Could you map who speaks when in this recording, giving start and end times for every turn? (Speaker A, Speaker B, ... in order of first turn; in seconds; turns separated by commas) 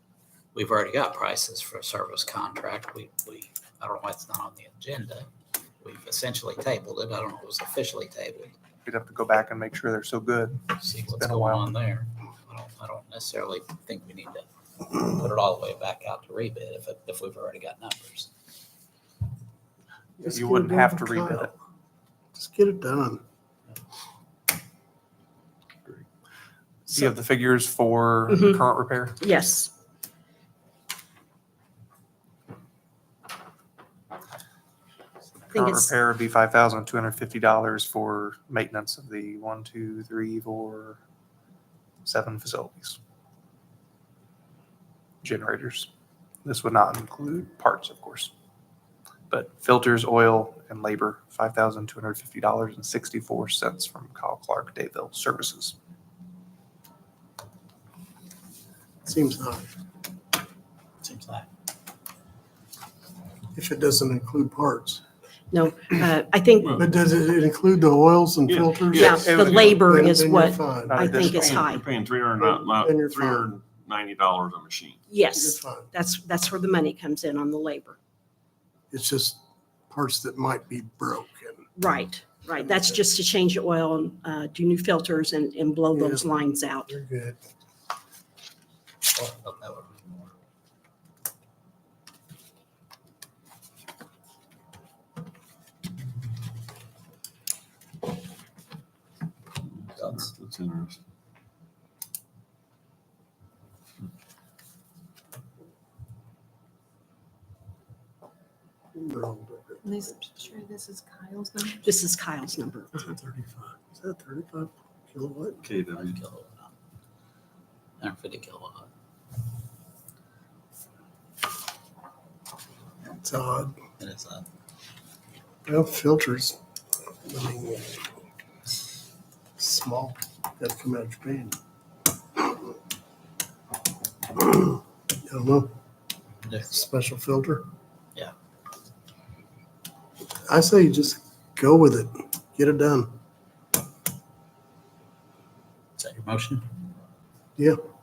Speaker A: 0.5-5.3, Speaker A: 5.8-8.6, Speaker B: 8.8-11.7, Speaker A: 10.8-18.3, Speaker B: 20.2-21.5, Speaker C: 20.2-21.5, Speaker C: 22.3-23.2, Speaker B: 26.9-29.2, Speaker D: 28.3-28.6, Speaker D: 29.2-29.7, Speaker B: 35.5-41.0, Speaker D: 35.5-35.9, Speaker B: 42.0-43.0, Speaker B: 45.2-45.9, Speaker B: 46.4-48.3, Speaker B: 49.3-55.8, Speaker C: 59.0-59.7, Speaker A: 61.0-61.5, Speaker C: 63.5-65.0, Speaker D: 65.5-66.8, Speaker C: 66.7-69.2, Speaker E: 68.5-69.6, Speaker D: 68.9-71.8, Speaker B: 69.0-71.8, Speaker C: 69.8-71.4, Speaker E: 71.6-75.0, Speaker C: 72.4-73.5, Speaker D: 75.1-78.0, Speaker C: 75.3-75.9, Speaker C: 78.9-79.4, Speaker C: 79.9-81.6, Speaker D: 81.8-86.9, Speaker C: 82.6-83.0, Speaker C: 85.9-86.3, Speaker C: 86.9-87.4, Speaker A: 89.1-90.3, Speaker E: 99.8-101.0, Speaker A: 100.0-100.3, Speaker C: 108.9-109.9, Speaker F: 109.8-111.8, Speaker D: 111.8-112.9, Speaker C: 113.0-115.6, Speaker E: 115.6-116.2, Speaker A: 115.9-116.7, Speaker A: 118.0-118.9, Speaker C: 123.2-123.7, Speaker A: 124.0-124.4, Speaker C: 125.7-126.6, Speaker C: 127.2-128.1, Speaker C: 129.6-131.6, Speaker C: 134.3-135.7, Speaker C: 136.6-137.6, Speaker C: 140.5-143.1, Speaker A: 146.0-146.6